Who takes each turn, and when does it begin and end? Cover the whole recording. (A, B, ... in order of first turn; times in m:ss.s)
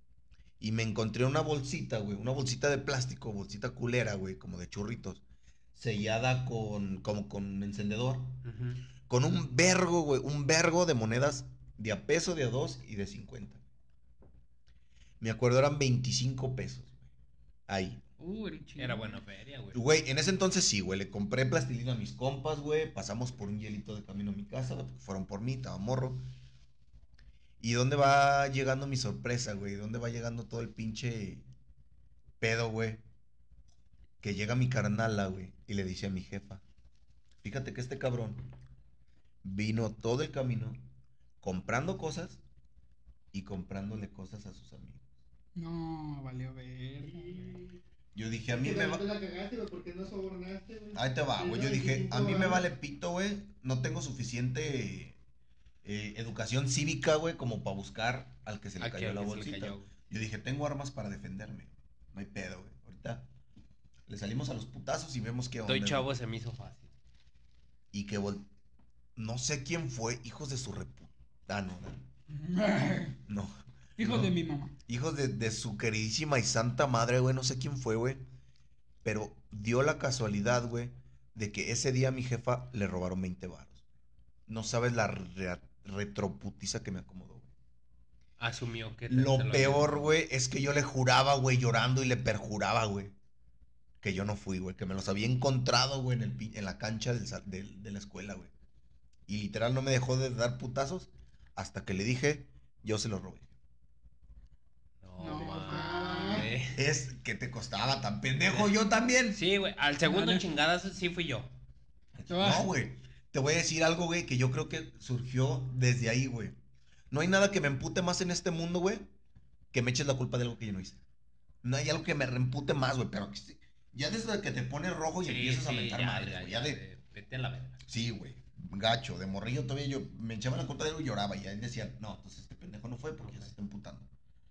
0:00.6-0:05.2 A
0:05.8-0:08.4 A
0:08.4-0:08.8 B
0:09.1-0:13.6 A
0:15.2-0:17.0 A
0:17.7-0:18.0 A
0:18.2-0:19.2 C
0:18.8-0:19.8 B
0:19.7-0:26.2 A
0:27.6-0:31.5 A
0:32.4-0:33.0 A
0:34.2-0:36.6 A
0:37.4-0:38.5 A
0:39.4-0:40.8 A
0:41.4-0:42.4 A
0:43.3-0:45.0 A
0:45.6-0:47.6 C
0:47.0-0:47.8 D
0:48.2-0:49.1 A
0:48.5-0:52.7 D
0:50.9-0:55.2 A
0:55.8-1:03.3 A
0:58.8-0:59.9 B
1:04.1-1:06.1 A
1:05.7-1:06.9 B
1:07.9-1:08.5 A
1:09.2-1:12.0 A
1:12.3-1:13.2 C
1:13.3-1:14.3 A
1:14.0-1:14.7 C
1:14.9-1:18.2 A
1:19.0-1:23.8 A
1:24.5-1:27.5 A
1:28.4-1:29.9 B
1:29.1-1:33.1 A
1:34.0-1:38.5 A
1:39.3-1:43.5 A
1:45.0-1:46.8 B
1:45.2-1:46.4 C
1:45.3-1:46.5 D
1:46.7-1:49.4 A
1:49.3-1:51.5 B
1:50.0-1:50.4 C
1:52.2-1:56.6 A
1:52.3-1:52.7 C
1:57.1-1:59.1 A
1:59.7-2:01.0 A
2:01.6-2:06.8 A
2:05.2-2:07.8 B
2:07.9-2:14.1 A
2:13.2-2:13.5 B